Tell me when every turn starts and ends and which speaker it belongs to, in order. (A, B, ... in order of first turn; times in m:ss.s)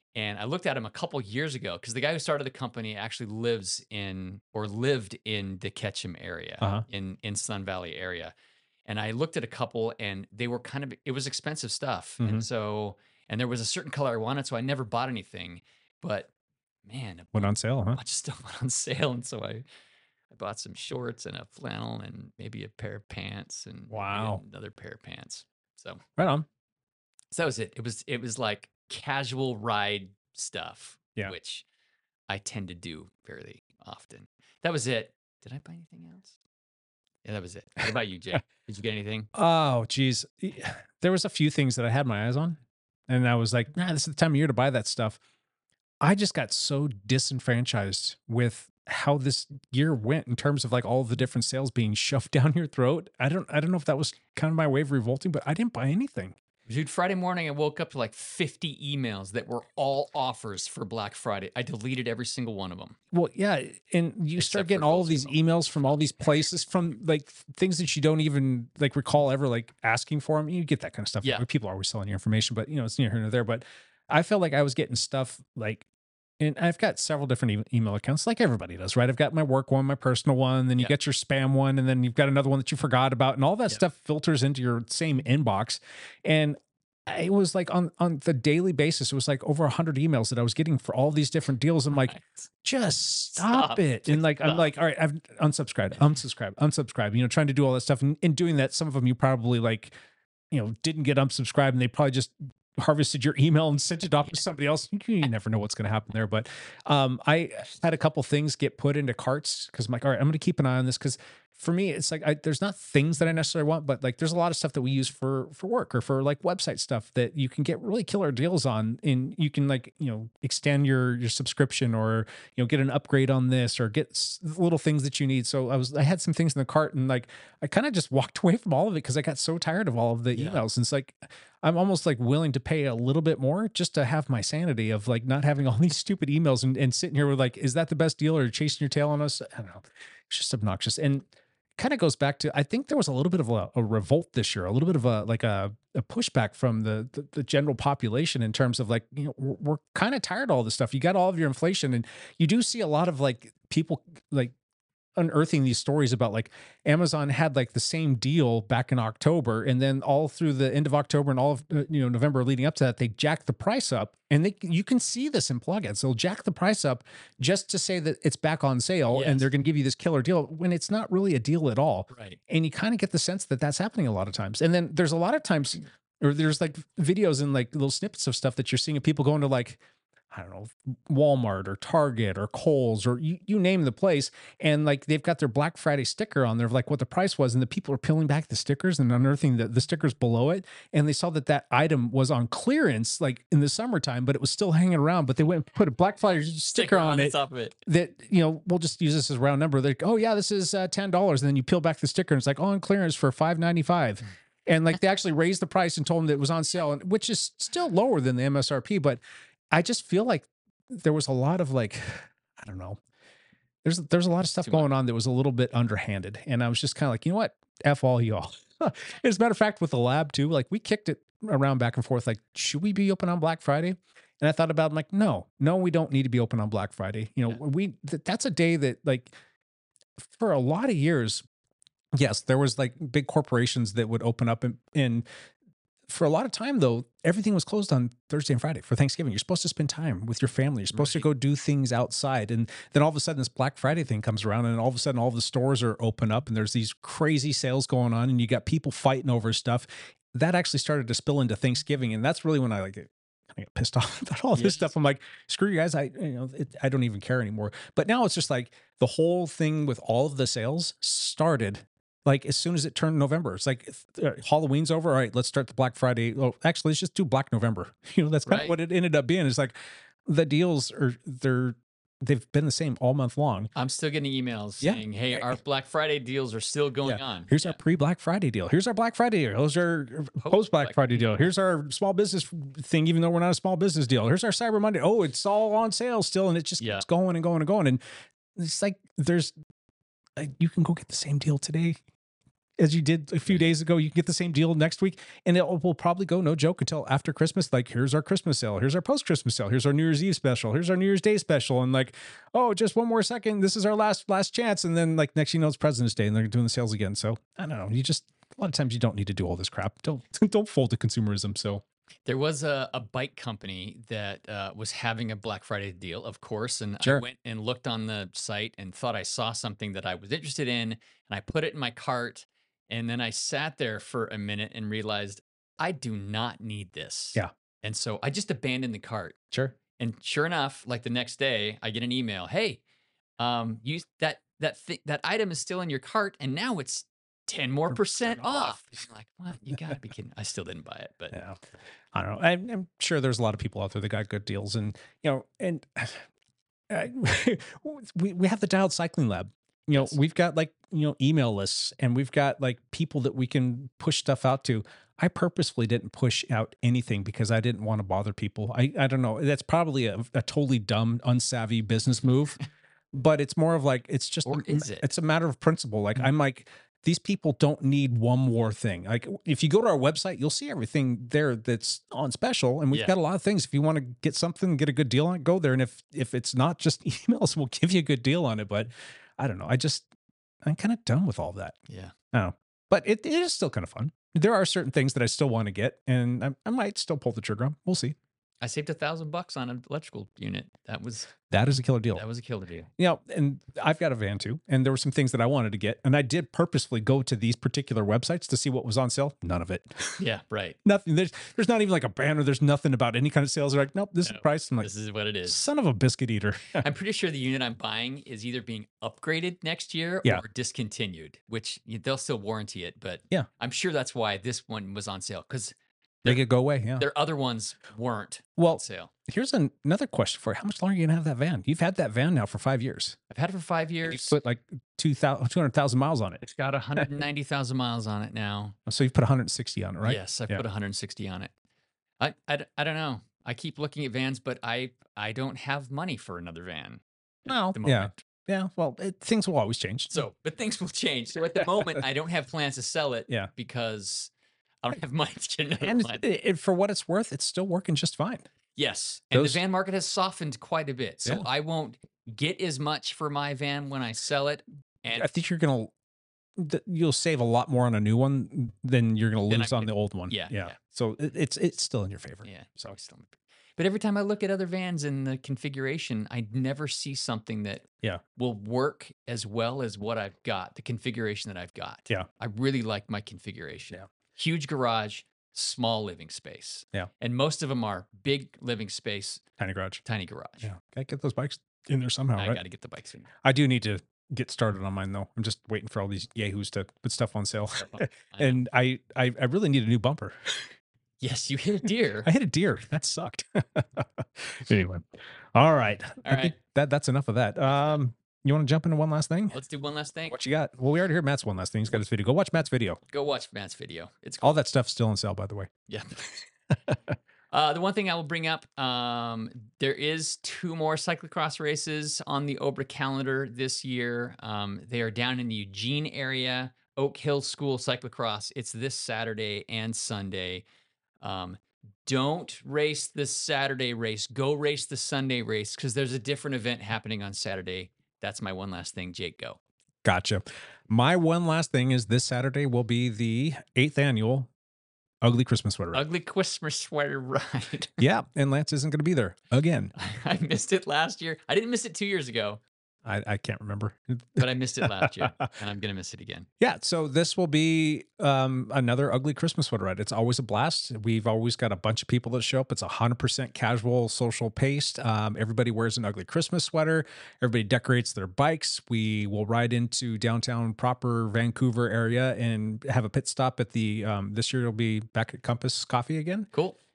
0:00.1-0:08.3 A
0:06.6-0:06.8 B
0:08.8-0:16.3 A
0:12.2-0:12.4 B
0:16.8-0:19.6 A
0:17.3-0:18.0 B
0:20.3-0:26.0 A
0:23.9-0:24.4 B
0:26.2-0:26.4 B
0:27.3-0:31.6 A
0:32.3-0:36.4 A
0:37.2-0:39.3 A
0:39.3-0:45.2 B
0:46.0-0:56.4 B
0:56.7-1:03.0 A
1:03.1-1:15.8 B
1:04.4-1:05.4 A
1:16.4-1:40.0 B
1:32.0-1:32.4 A
1:33.3-1:34.7 A
1:40.5-2:34.5 B
2:10.3-2:10.6 A
2:35.2-2:59.8 B
2:49.1-2:49.5 A
2:52.1-2:52.4 A
3:00.3-3:33.0 B
3:16.7-3:17.7 A
3:33.8-3:49.4 B
3:50.2-3:51.4 B
3:52.1-3:55.3 B
3:56.1-4:33.7 B
4:00.9-4:01.3 A
4:14.5-4:14.9 A
4:28.4-4:28.7 A
4:33.7-4:37.8 A
4:34.8-4:35.6 B
4:37.0-4:48.0 B
4:40.4-4:41.5 A
4:46.8-4:47.0 A
4:48.6-4:49.5 B
4:50.4-4:52.0 B
4:52.8-5:11.8 B
5:12.2-5:29.4 A
5:29.5-5:29.8 B
5:30.0-5:32.8 A
5:33.4-5:41.4 A
5:37.9-5:38.9 B
5:41.3-5:41.6 B
5:42.1-5:46.2 B
5:46.9-6:02.6 B
6:03.1-6:20.1 B
6:04.4-6:05.1 A
6:20.6-6:21.8 B
6:21.9-6:22.1 A
6:22.3-6:28.2 B
6:28.6-6:31.3 A
6:31.5-6:32.2 B
6:32.1-6:32.9 A
6:33.0-6:40.2 B
6:40.2-6:40.8 A
6:40.8-6:44.9 B
6:44.2-6:45.6 A
6:45.4-6:46.8 B
6:46.8-6:56.4 A
6:56.2-6:57.0 B
6:57.0-6:59.1 A
6:58.6-7:03.2 B
7:03.3-7:04.4 A
7:04.0-7:06.4 B
7:06.4-7:08.8 A
7:08.9-7:10.6 B
7:10.0-7:11.5 A
7:12.2-7:18.2 A
7:17.5-7:20.2 B
7:20.1-7:24.3 A
7:21.5-7:22.0 B
7:24.8-7:26.2 A
7:25.8-7:28.5 B
7:28.8-7:35.3 A
7:29.3-7:29.6 B
7:35.1-7:35.9 B
7:36.6-7:42.9 B
7:39.5-7:40.8 A
7:42.4-7:47.8 A
7:48.4-7:59.4 A
7:59.6-8:00.0 B
8:00.0-8:00.7 A
8:00.6-8:02.6 B
8:02.4-8:03.3 A
8:03.4-8:10.7 B
8:07.8-8:08.6 A
8:11.2-8:12.3 A
8:12.2-8:19.6 B
8:16.2-8:16.6 A
8:19.5-8:20.4 A
8:20.3-8:23.0 B
8:23.1-8:24.6 A
8:24.4-8:25.7 B
8:27.5-8:40.6 A
8:41.2-8:49.6 A
8:50.0-8:54.5 B
8:55.2-8:56.0 B
8:55.9-8:58.0 A
8:58.0-8:59.9 B
8:59.9-9:02.6 A
9:03.0-9:05.5 B
9:04.4-9:06.5 A
9:06.6-9:26.5 B